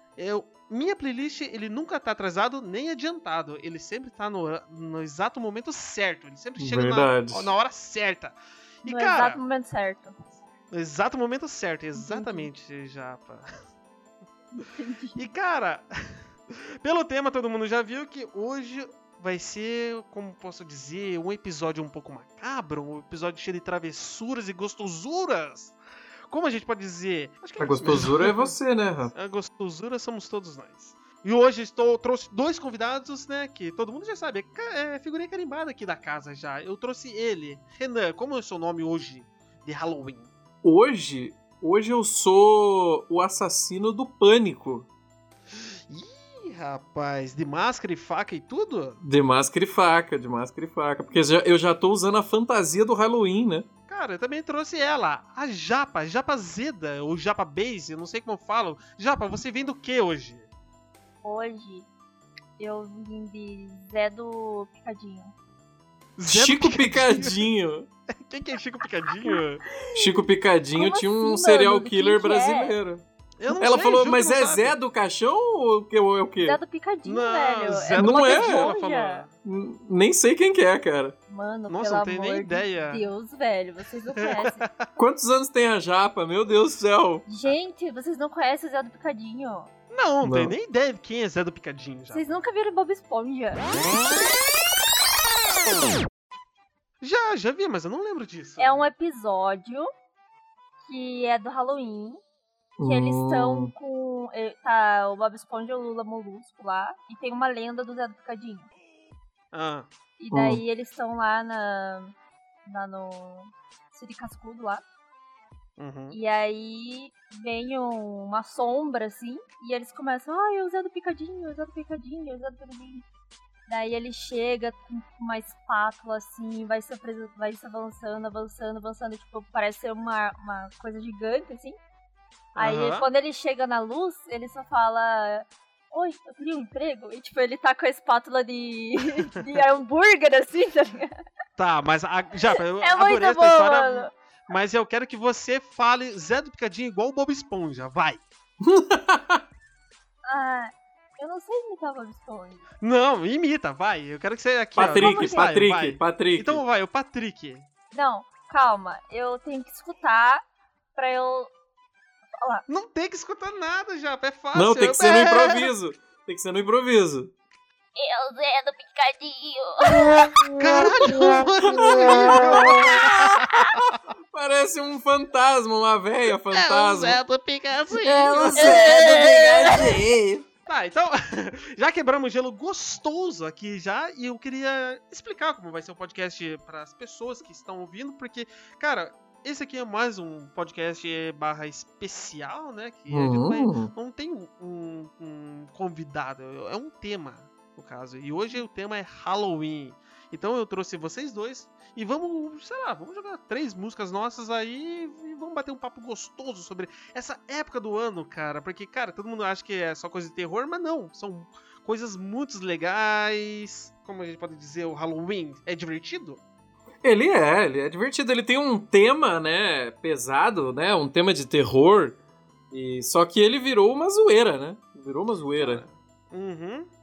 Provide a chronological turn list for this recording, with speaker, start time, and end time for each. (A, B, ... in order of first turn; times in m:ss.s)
0:00.2-0:09.4 A
0:06.6-0:07.5 B
0:08.8-0:10.2 C
0:10.7-0:13.5 A
0:12.0-0:12.5 C
0:14.5-0:15.3 C
0:15.2-0:25.8 A
0:26.3-0:28.6 A
0:27.6-0:29.1 B
0:29.1-0:40.3 A
0:40.6-0:44.9 B
0:45.5-0:49.0 A
0:49.0-0:53.7 B
0:53.9-1:00.5 A
1:01.2-1:01.9 C
1:02.6-1:05.3 C
1:06.2-1:07.4 A
1:06.3-1:07.9 B
1:08.2-1:09.6 A
1:09.2-1:10.1 C
1:09.9-1:13.0 B
1:10.7-1:12.8 C
1:13.4-1:14.8 A
1:13.6-1:16.6 B
1:16.4-1:19.2 C
1:17.1-1:19.3 A
1:18.0-1:18.7 B
1:19.4-1:21.2 B
1:21.3-1:24.6 C
1:21.7-1:23.1 A
1:24.2-1:24.9 A
1:25.0-1:27.2 B
1:27.3-1:29.7 C
1:29.9-1:32.2 A
1:30.2-1:30.6 B
1:32.1-1:34.0 C
1:37.0-1:38.9 A
1:38.6-1:39.9 C
1:40.8-1:42.2 C
1:42.8-1:43.7 B
1:42.8-1:48.7 C
1:49.5-1:49.9 A
1:50.2-1:54.8 C
1:50.3-1:50.6 B
1:55.8-1:56.2 A
1:56.1-2:03.0 C
2:03.7-2:11.8 C
2:12.6-2:21.2 C
2:12.6-2:13.1 A
2:19.1-2:19.6 A
2:21.6-2:28.2 A
2:22.8-2:24.1 C
2:28.6-2:29.4 B
2:30.3-2:32.6 C
2:32.8-2:37.7 A
2:34.8-2:36.6 B
2:34.8-2:35.5 C
2:37.9-2:41.5 C
2:42.4-2:42.6 C
2:42.7-2:45.7 A
2:44.5-2:47.3 B
2:48.0-2:53.1 C
2:50.5-2:53.8 A
2:51.7-2:57.2 B
2:56.5-2:59.8 A
2:58.0-3:00.5 B
2:58.6-3:00.0 C
3:00.7-3:36.4 A
3:13.1-3:13.9 B
3:37.0-3:42.2 B
3:42.7-3:45.8 B
3:45.6-3:46.9 A